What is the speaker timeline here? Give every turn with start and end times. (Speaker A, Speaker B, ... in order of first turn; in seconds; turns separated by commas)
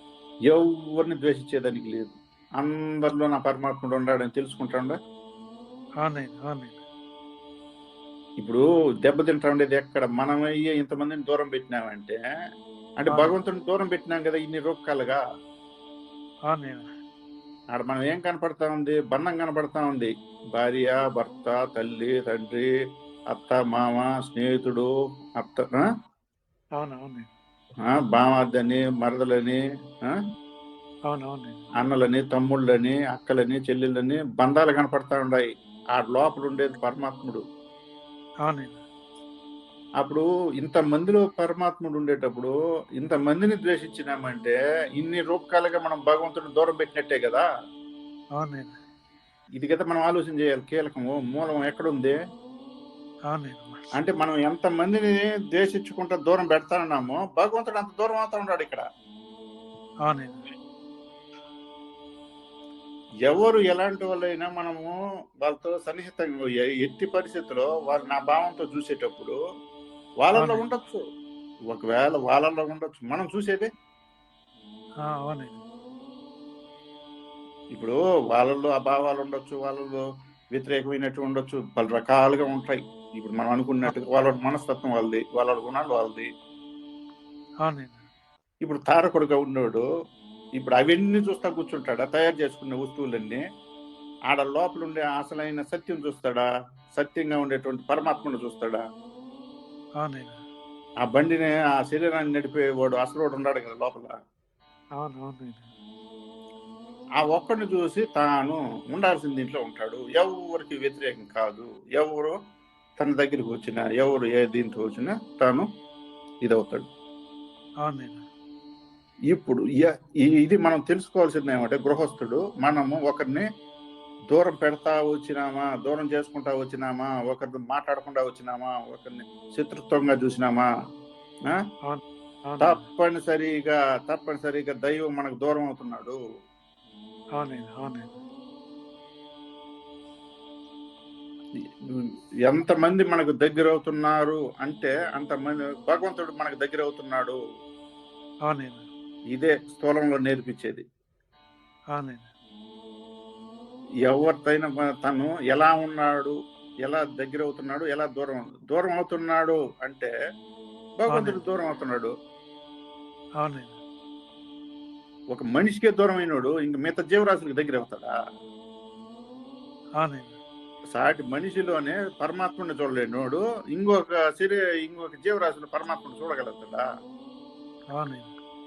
Speaker A: 0.5-5.0, Speaker B: 6.0-6.8, Speaker A: 8.4-12.2, Speaker A: 13.0-15.2, Speaker B: 13.1-13.3, Speaker B: 16.5-16.9, Speaker A: 17.7-22.6, Speaker A: 23.3-25.9, Speaker B: 26.8-27.3, Speaker A: 27.9-30.2, Speaker B: 31.1-31.6, Speaker A: 31.8-37.4, Speaker B: 38.4-38.8, Speaker A: 40.0-47.4, Speaker B: 48.4-48.8, Speaker A: 49.6-52.2, Speaker B: 53.3-53.8, Speaker A: 54.0-58.8, Speaker B: 60.0-60.4, Speaker A: 63.3-69.4, Speaker A: 70.2-71.0, Speaker B: 70.3-70.7, Speaker A: 71.7-73.7, Speaker B: 75.0-75.6, Speaker A: 77.7-80.0, Speaker A: 80.5-86.3, Speaker B: 87.6-88.0, Speaker A: 88.6-89.8, Speaker A: 90.6-93.4, Speaker A: 94.3-96.4, Speaker A: 96.9-98.8, Speaker B: 100.0-100.4, Speaker A: 101.0-104.1, Speaker B: 105.0-105.7, Speaker A: 107.2-112.3, Speaker A: 113.0-115.7, Speaker A: 116.4-116.8, Speaker B: 117.8-118.2, Speaker A: 119.3-123.5, Speaker A: 124.3-130.7, Speaker B: 131.8-132.8, Speaker A: 132.6-136.2, Speaker B: 137.4-138.2, Speaker A: 142.5-147.4, Speaker B: 148.4-148.8, Speaker A: 149.3-150.8, Speaker B: 151.9-152.3, Speaker A: 154.1-160.1, Speaker A: 161.0-162.1, Speaker B: 161.1-161.4, Speaker B: 163.4-163.8, Speaker A: 165.3-168.1, Speaker B: 170.0-170.4, Speaker A: 170.9-176.8, Speaker B: 177.9-178.3